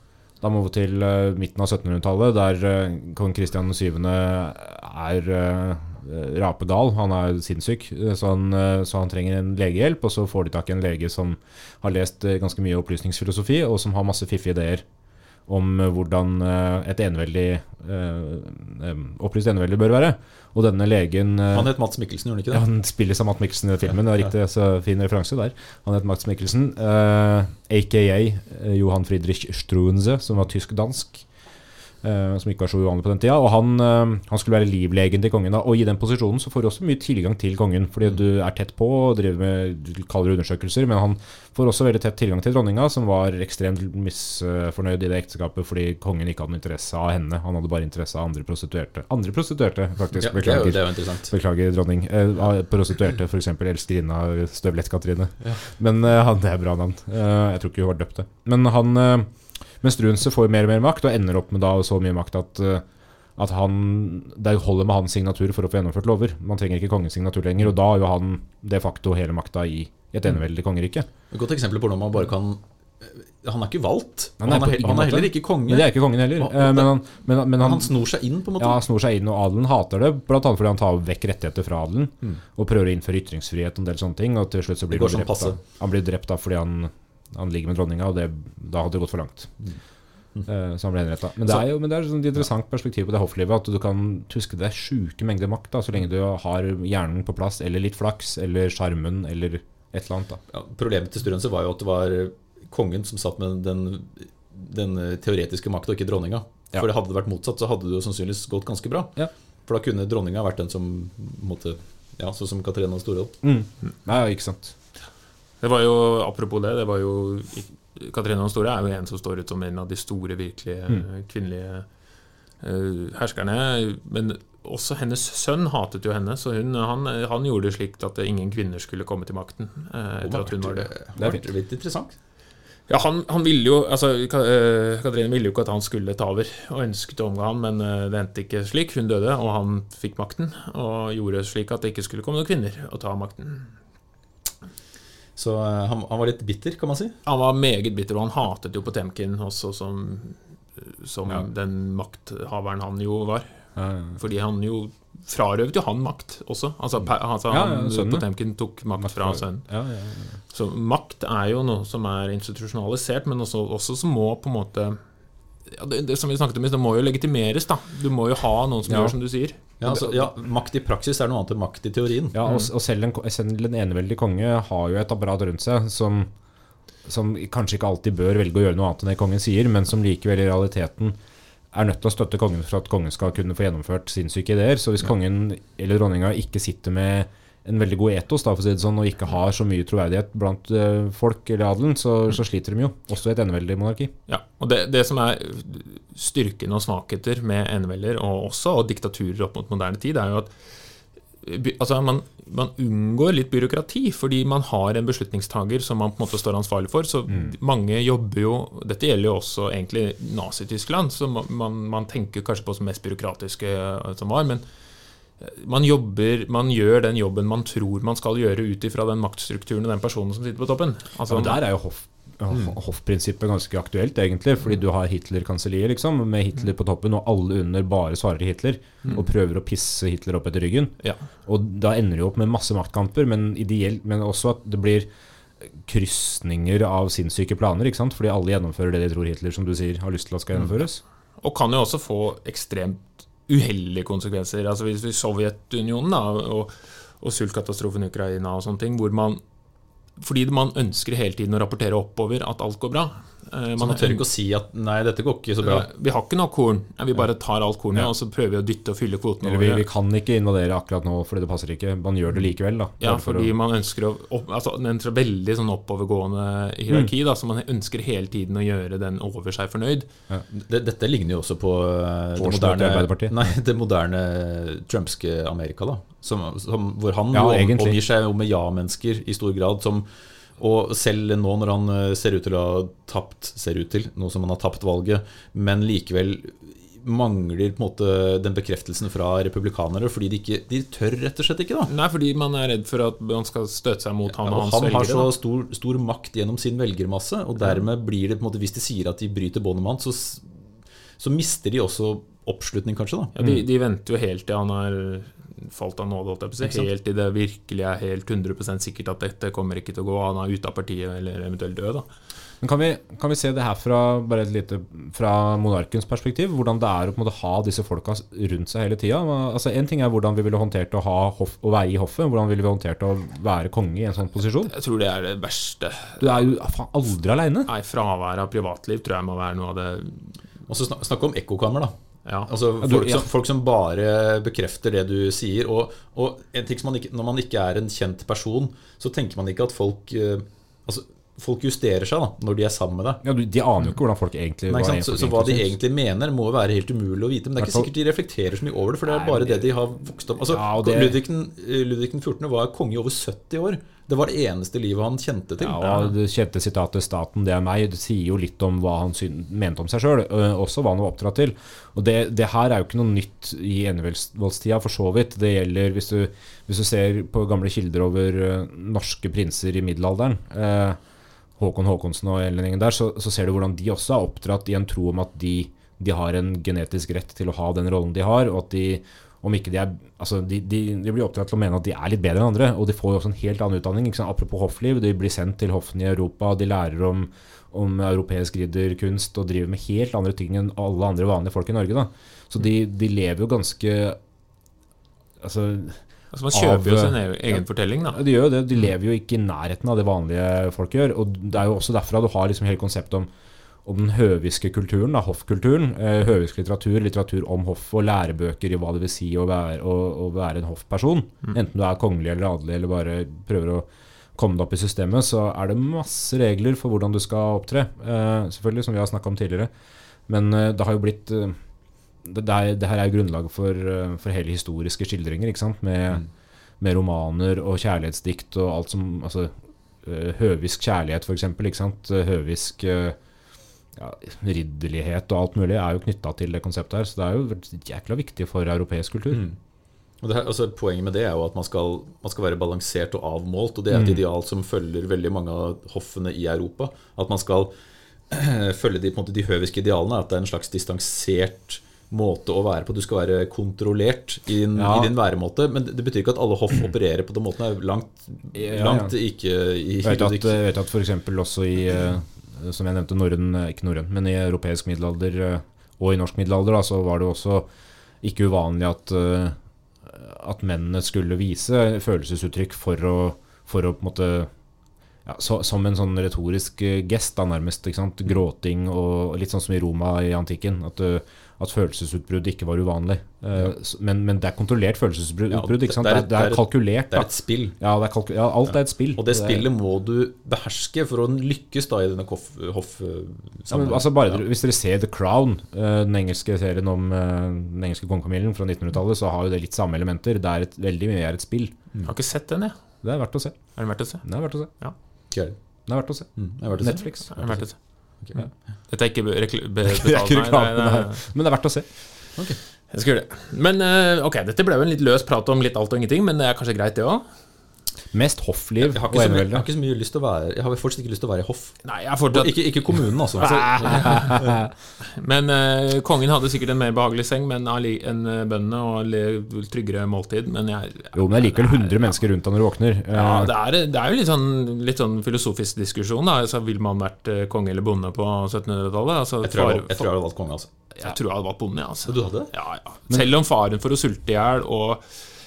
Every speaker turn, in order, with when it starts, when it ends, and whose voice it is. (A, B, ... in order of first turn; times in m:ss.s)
0:00.4-0:14.8 A
0:15.5-0:21.7 A
0:21.5-0:22.6 B
0:22.5-0:31.2 A
0:32.0-1:02.8 A
0:50.2-0:51.3 B
1:03.4-1:11.1 A
1:11.3-1:17.0 B
1:14.4-1:17.9 A
1:17.6-1:18.8 B
1:18.6-1:29.5 A
1:24.9-1:25.6 B
1:30.5-1:40.4 A
1:40.5-1:53.4 B
1:53.4-1:54.7 A
1:55.6-2:01.9 C
2:02.6-2:10.9 C
2:10.2-2:12.2 B
2:12.9-2:23.7 C
2:25.4-2:27.2 B
2:27.3-2:39.7 C
2:33.8-2:34.2 A
2:37.5-2:38.2 A
2:39.0-2:40.4 A
2:40.5-2:45.0 C
2:45.7-2:49.6 C
2:48.9-2:49.1 A
2:49.8-2:52.4 B
2:52.3-2:56.3 A
2:52.4-2:52.7 C
2:57.0-3:01.2 A
3:01.7-3:14.1 A
3:14.3-3:20.5 C
3:21.4-3:34.6 C
3:35.4-3:41.6 C
3:41.3-3:50.9 A
3:51.5-3:55.1 A
3:55.8-4:01.0 A
4:01.4-4:09.4 C
4:10.2-4:14.2 C
4:13.8-4:15.9 B
4:15.6-4:19.9 C
4:19.4-4:23.5 A
4:23.0-4:30.1 C
4:30.5-4:40.1 B
4:32.4-4:33.5 A
4:37.3-4:38.0 A
4:40.6-4:51.9 B
4:51.9-4:55.3 C
4:54.3-5:00.5 B
5:01.2-5:03.3 B
5:03.4-5:12.1 C
5:12.6-5:24.7 A
5:24.6-5:26.5 C
5:26.2-5:27.7 A
5:27.7-5:30.3 C
5:30.7-5:31.9 B
5:32.5-5:43.2 B
5:32.8-5:33.3 A
5:43.2-5:45.7 A
5:44.7-5:55.8 B
5:47.6-5:47.9 A
5:49.2-5:49.6 A
5:50.5-5:51.2 A
5:55.6-6:11.0 A
5:55.8-5:56.1 C
6:11.6-6:34.2 A
6:35.4-6:37.6 A
6:36.3-6:38.2 C
6:38.1-6:43.3 A
6:43.8-6:59.7 A
7:00.3-7:01.6 A
7:02.2-7:06.2 A
7:06.8-7:09.5 A
7:10.0-7:13.2 A
7:13.9-7:19.4 A
7:19.3-7:19.6 B
7:20.2-7:27.7 B
7:23.9-7:24.2 A
7:28.3-7:40.6 B
7:34.8-7:35.1 A
7:38.5-7:39.1 A
7:40.0-7:47.7 A
7:48.2-7:54.5 A
7:55.3-8:07.3 A
8:05.5-8:07.8 B
8:07.8-8:09.7 A
8:09.2-8:14.4 B
8:13.7-8:21.7 A
8:22.0-8:22.8 C
8:23.0-8:24.7 A
8:23.8-8:25.0 C
8:25.3-8:25.6 B
8:25.9-8:27.3 A
8:26.4-8:28.4 B
8:27.3-8:28.2 C
8:28.9-8:31.2 C
8:29.9-8:31.9 A
8:32.9-8:37.2 C
8:38.1-8:39.7 A
8:38.8-8:44.6 B
8:41.8-8:42.6 C
8:43.4-8:44.4 C
8:43.4-8:44.7 A
8:45.0-8:52.2 C
8:51.1-8:53.5 A
8:53.1-9:00.1 C
8:59.4-9:00.7 B
9:01.0-9:05.0 C
9:02.1-9:02.5 B